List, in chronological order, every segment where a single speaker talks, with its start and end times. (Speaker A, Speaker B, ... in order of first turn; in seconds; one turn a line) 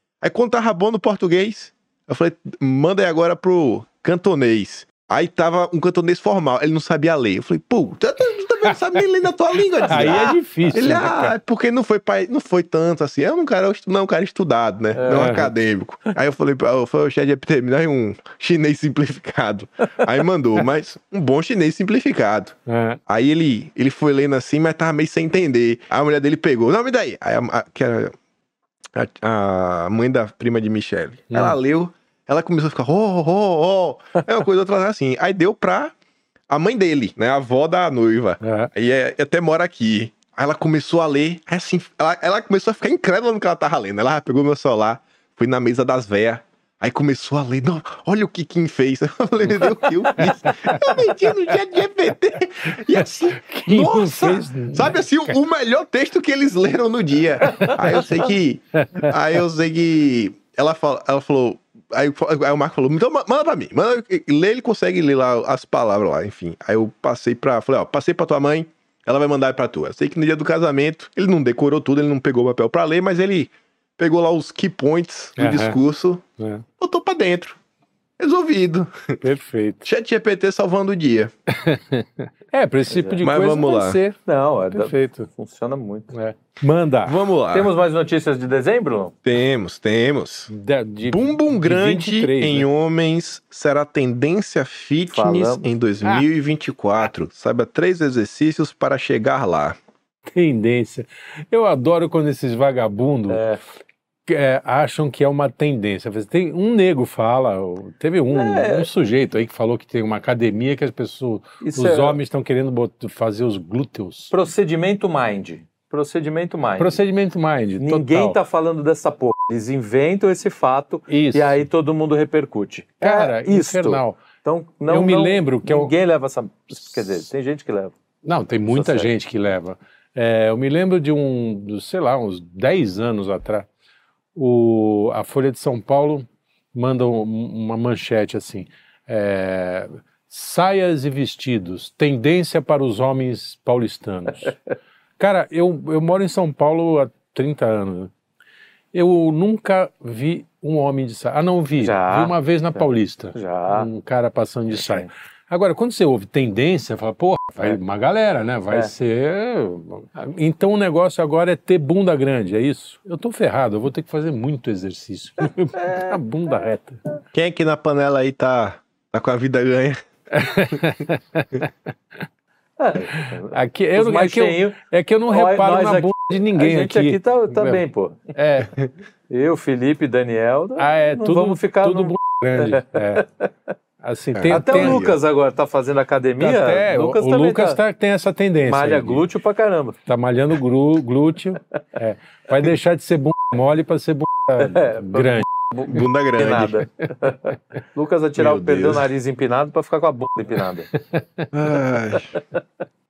Speaker A: 0.2-28.1
Speaker B: 8.6-9.0
Speaker B: 9.8-11.3
Speaker C: 9.9-10.3
Speaker C: 14.9-15.4
Speaker B: 15.1-15.5
Speaker B: 22.7-23.0
Speaker A: 28.9-35.9
Speaker B: 31.3-31.6
Speaker A: 36.5-76.2
Speaker B: 38.4-38.7
Speaker B: 50.1-51.5
Speaker B: 52.7-55.4
Speaker B: 58.7-59.1
Speaker B: 75.4-75.8
Speaker B: 76.4-76.6
Speaker A: 76.8-77.6
Speaker A: 78.2-79.2
Speaker B: 79.2-79.8
Speaker A: 79.8-81.3
Speaker B: 81.5-84.2
Speaker C: 82.9-83.2
Speaker A: 83.2-84.0
Speaker C: 84.2-86.1
Speaker B: 84.7-85.3
Speaker B: 86.1-87.2
Speaker A: 87.0-87.7
Speaker C: 87.5-89.2
Speaker A: 89.2-90.5
Speaker B: 90.5-92.7
Speaker A: 91.0-99.8
Speaker C: 95.1-95.7
Speaker B: 100.3-103.4
Speaker C: 103.3-103.6
Speaker B: 104.3-114.3
Speaker C: 108.3-108.9
Speaker C: 111.6-112.2
Speaker C: 114.3-117.0
Speaker B: 116.8-118.4
Speaker C: 117.8-127.9
Speaker B: 121.1-121.7
Speaker B: 123.0-124.2
Speaker B: 124.9-125.9
Speaker B: 128.2-133.7
Speaker C: 128.7-129.1
Speaker B: 134.3-144.5
Speaker B: 145.2-148.1
Speaker B: 148.9-167.0
Speaker C: 151.8-153.9
Speaker C: 154.7-155.1
Speaker C: 165.4-166.2
Speaker A: 167.3-170.0
Speaker B: 170.3-171.7
Speaker A: 170.5-170.9
Speaker C: 172.8-174.8
Speaker B: 173.1-177.8
Speaker C: 175.3-178.3
Speaker B: 178.3-178.7
Speaker C: 179.3-183.5
Speaker B: 180.8-183.2
Speaker B: 184.0-185.1
Speaker A: 184.3-185.2
Speaker C: 184.5-187.8
Speaker B: 186.4-189.2
Speaker C: 188.6-190.0
Speaker B: 190.1-195.4
Speaker C: 194.6-200.9
Speaker A: 195.9-196.8
Speaker A: 198.4-199.1
Speaker B: 201.0-201.5
Speaker A: 201.5-202.4